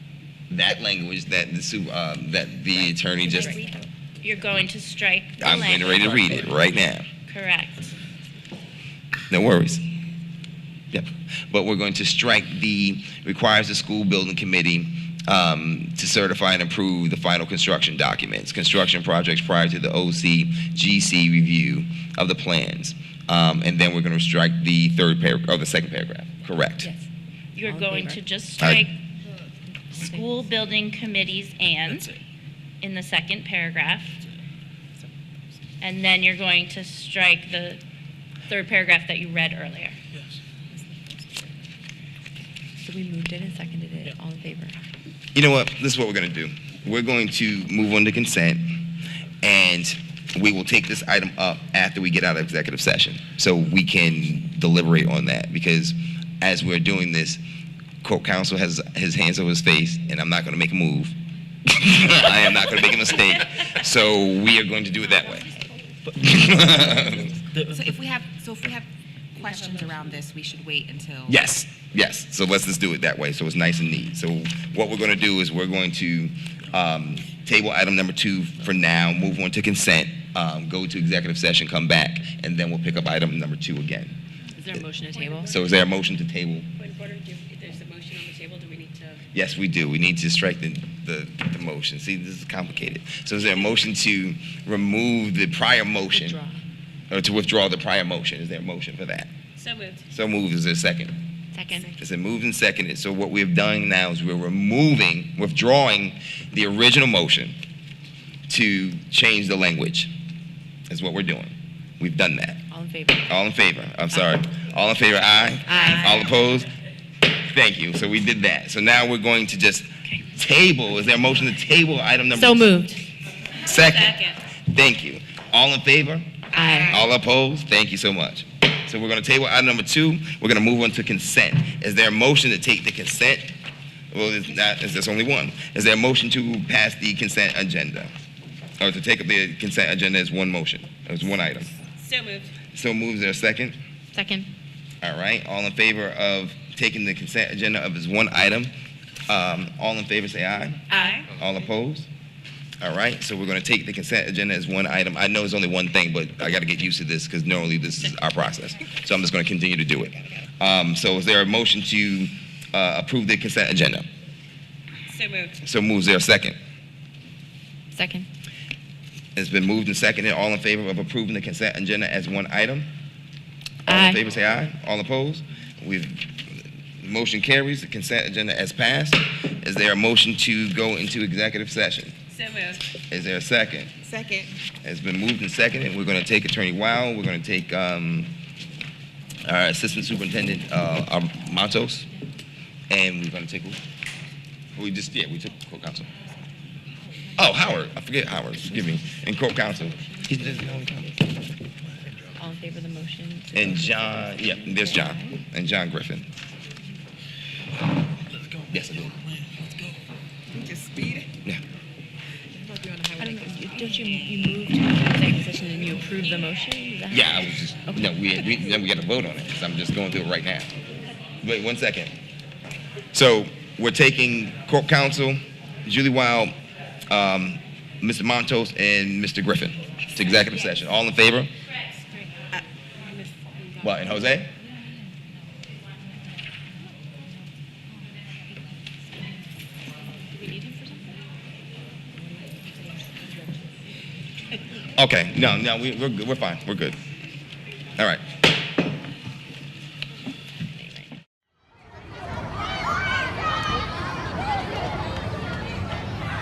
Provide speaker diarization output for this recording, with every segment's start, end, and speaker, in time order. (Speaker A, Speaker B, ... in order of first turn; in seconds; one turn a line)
Speaker A: 0.5-3.7
Speaker B: 3.4-3.8
Speaker C: 4.2-6.6
Speaker A: 5.4-7.0
Speaker C: 7.3-7.9
Speaker A: 9.3-9.8
Speaker A: 10.9-26.9
Speaker B: 26.8-27.1
Speaker C: 27.6-28.9
Speaker B: 27.6-28.2
Speaker A: 28.6-28.9
Speaker B: 29.7-30.3
Speaker C: 29.9-32.1
Speaker C: 32.8-34.2
Speaker C: 35.8-37.8
Speaker C: 38.5-39.9
Speaker B: 42.8-44.8
Speaker A: 45.3-48.8
Speaker A: 49.4-57.4
Speaker A: 58.0-61.1
Speaker A: 61.7-65.5
Speaker A: 66.1-67.4
Speaker D: 67.5-71.4
Speaker A: 71.3-84.2
Speaker B: 84.6-85.5
Speaker E: 85.0-85.6
Speaker A: 85.5-86.7
Speaker E: 86.8-89.2
Speaker A: 89.3-96.4
Speaker B: 96.1-96.6
Speaker A: 97.1-99.3
Speaker E: 99.6-100.0
Speaker A: 100.1-101.2
Speaker B: 101.5-102.0
Speaker A: 101.9-107.5
Speaker A: 108.5-110.1
Speaker A: 110.9-112.6
Speaker B: 112.7-113.3
Speaker A: 113.3-116.7
Speaker B: 115.7-116.3
Speaker A: 117.4-122.7
Speaker B: 122.3-123.0
Speaker A: 123.6-126.3
Speaker B: 126.5-127.0
Speaker A: 126.8-133.5
Speaker A: 134.1-138.1
Speaker A: 138.8-141.7
Speaker E: 142.0-142.5
Speaker A: 142.7-143.8
Speaker B: 144.1-144.5
Speaker A: 145.0-148.7
Speaker A: 149.3-150.8
Speaker C: 150.9-151.2
Speaker B: 150.9-151.2
Speaker A: 151.3-152.1
Speaker A: 152.8-164.0
Speaker E: 165.1-165.5
Speaker A: 165.6-166.6
Speaker B: 167.9-168.3
Speaker A: 169.3-172.9
Speaker B: 173.9-174.2
Speaker A: 173.9-182.2
Speaker E: 182.3-182.8
Speaker A: 183.1-183.9
Speaker D: 184.1-184.5
Speaker A: 184.8-188.3
Speaker A: 189.4-192.1
Speaker A: 192.9-193.8
Speaker A: 194.8-196.1
Speaker A: 197.4-201.1
Speaker B: 198.8-199.3
Speaker B: 199.9-201.3
Speaker B: 202.2-205.4
Speaker A: 203.5-206.3
Speaker A: 208.7-209.2
Speaker D: 210.5-211.2
Speaker D: 212.7-213.3
Speaker B: 213.2-218.1
Speaker A: 217.1-220.7
Speaker A: 221.4-222.1
Speaker A: 223.1-226.5
Speaker A: 227.1-231.5
Speaker A: 233.8-234.5
Speaker B: 240.3-241.2
Speaker A: 244.9-247.0
Speaker B: 250.8-251.1